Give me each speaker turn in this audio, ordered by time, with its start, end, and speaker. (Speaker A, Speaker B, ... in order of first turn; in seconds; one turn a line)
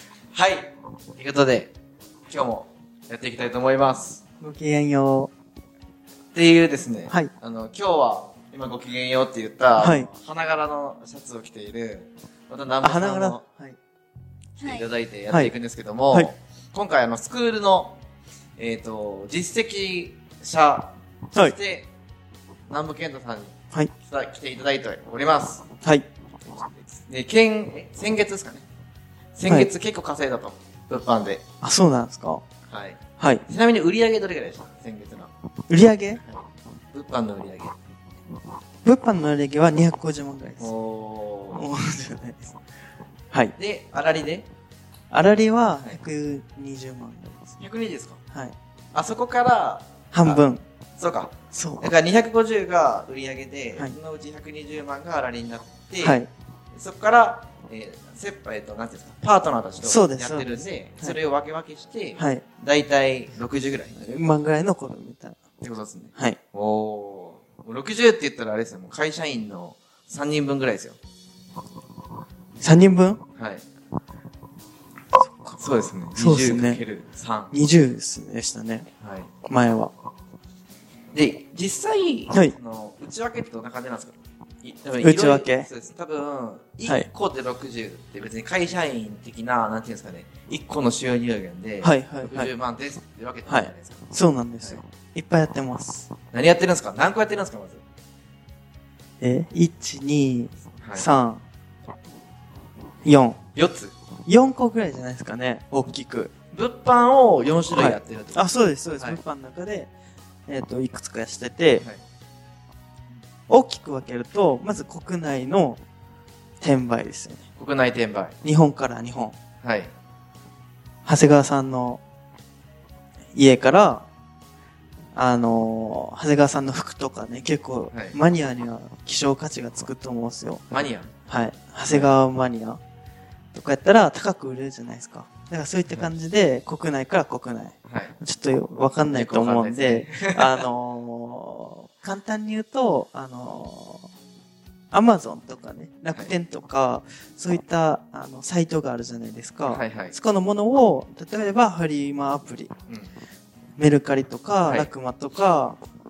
Speaker A: 0.3-1.7
Speaker A: 2.3-4.2
Speaker B: 4.4-5.3
Speaker A: 6.3-13.4
Speaker B: 9.8-10.1
Speaker B: 12.8-13.8
Speaker A: 14.6-18.0
Speaker A: 18.6-21.9
Speaker A: 22.7-25.7
Speaker A: 26.5-28.7
Speaker A: 29.3-31.4
Speaker B: 29.4-29.7
Speaker B: 31.6-32.4
Speaker A: 32.7-35.3
Speaker B: 33.2-33.5
Speaker B: 35.7-36.2
Speaker A: 36.1-37.8
Speaker B: 38.8-40.7
Speaker A: 40.6-41.6
Speaker B: 41.5-42.5
Speaker A: 43.5-44.5
Speaker B: 45.1-47.5
Speaker A: 47.6-48.2
Speaker A: 48.9-50.4
Speaker B: 50.1-50.6
Speaker A: 51.0-56.2
Speaker B: 51.5-51.9
Speaker B: 56.0-56.3
Speaker A: 56.7-64.2
Speaker B: 59.8-61.2
Speaker B: 62.1-62.5
Speaker B: 64.0-65.4
Speaker A: 65.6-71.0
Speaker B: 72.6-73.2
Speaker A: 73.3-73.6
Speaker B: 75.2-75.5
Speaker A: 75.6-77.5
Speaker B: 76.1-76.8
Speaker B: 77.5-78.9
Speaker A: 79.0-79.3
Speaker B: 79.5-79.9
Speaker A: 81.1-94.1
Speaker B: 85.0-85.7
Speaker B: 91.8-92.5
Speaker B: 93.5-96.1
Speaker A: 96.3-97.8
Speaker B: 99.2-101.4
Speaker A: 100.8-101.1
Speaker B: 103.0-103.4
Speaker A: 103.5-103.9
Speaker B: 104.2-106.3
Speaker A: 106.5-108.5
Speaker B: 107.7-109.9
Speaker B: 110.5-111.8
Speaker B: 113.5-115.8
Speaker B: 116.6-117.5
Speaker A: 117.6-118.4
Speaker B: 118.4-119.3
Speaker A: 119.6-119.9
Speaker B: 121.0-122.0
Speaker B: 123.3-124.1
Speaker B: 125.1-132.8
Speaker A: 127.9-128.2
Speaker A: 130.7-131.1
Speaker A: 131.9-132.1
Speaker B: 133.5-144.1
Speaker A: 137.9-138.1
Speaker A: 139.1-140.6
Speaker B: 144.9-152.7
Speaker A: 149.7-150.2
Speaker A: 152.9-153.1
Speaker B: 153.8-155.8
Speaker A: 154.6-154.9